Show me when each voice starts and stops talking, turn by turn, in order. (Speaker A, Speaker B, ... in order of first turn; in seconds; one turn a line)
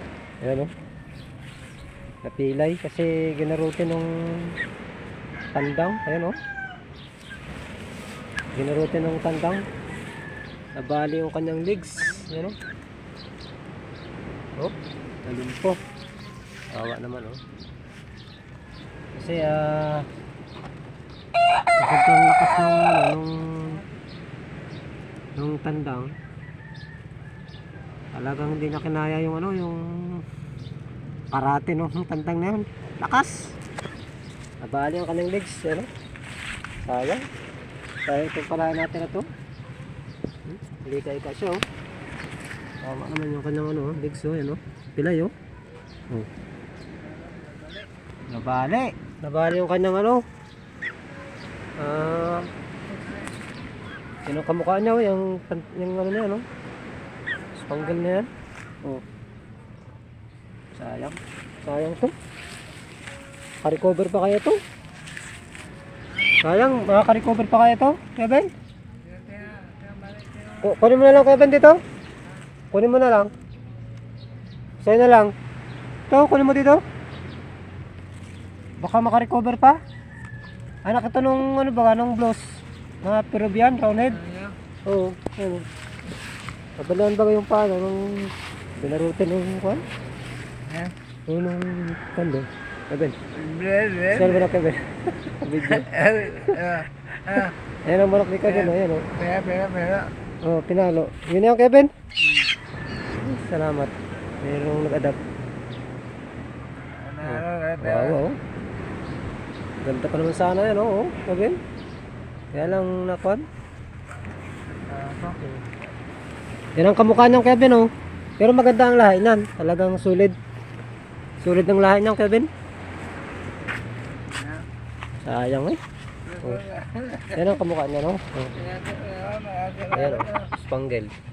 Speaker A: 0.4-0.7
Speaker A: 2.2-4.6
Speaker A: 5.5-6.4
Speaker A: 8.6-9.7
Speaker A: 10.8-12.6
Speaker A: 15.2-15.8
Speaker A: 16.7-17.4
Speaker A: 19.1-20.1
Speaker A: 21.8-23.8
Speaker A: 25.4-26.2
Speaker A: 28.1-30.3
Speaker A: 31.3-33.6
Speaker A: 34.6-35.9
Speaker A: 36.8-37.2
Speaker A: 38.1-39.3
Speaker A: 40.5-41.6
Speaker A: 42.8-45.3
Speaker B: 47.2-47.9
Speaker A: 48.3-50.2
Speaker A: 51.8-52.5
Speaker A: 54.2-56.5
Speaker A: 57.6-58.3
Speaker A: 60.7-62.1
Speaker A: 63.6-64.6
Speaker A: 66.4-68.5
Speaker B: 69.0-70.6
Speaker A: 70.6-71.8
Speaker A: 72.7-73.3
Speaker A: 74.8-75.3
Speaker A: 76.1-76.8
Speaker A: 78.8-79.8
Speaker A: 80.8-84.2
Speaker B: 84.2-84.5
Speaker A: 84.9-85.7
Speaker A: 86.8-89.8
Speaker B: 90.7-90.9
Speaker A: 91.3-93.2
Speaker B: 93.3-94.3
Speaker A: 94.1-99.1
Speaker B: 95.8-97.5
Speaker B: 99.1-100.1
Speaker A: 100.4-101.9
Speaker A: 103.1-105.2
Speaker B: 107.0-108.2
Speaker A: 107.2-108.4
Speaker A: 109.8-111.6
Speaker A: 112.5-113.5
Speaker B: 114.8-115.4
Speaker A: 116.8-120.4
Speaker A: 121.4-122.5
Speaker B: 124.3-124.6
Speaker A: 125.2-125.8
Speaker B: 126.3-127.4
Speaker A: 127.3-128.6
Speaker B: 128.6-130.5
Speaker A: 129.9-131.1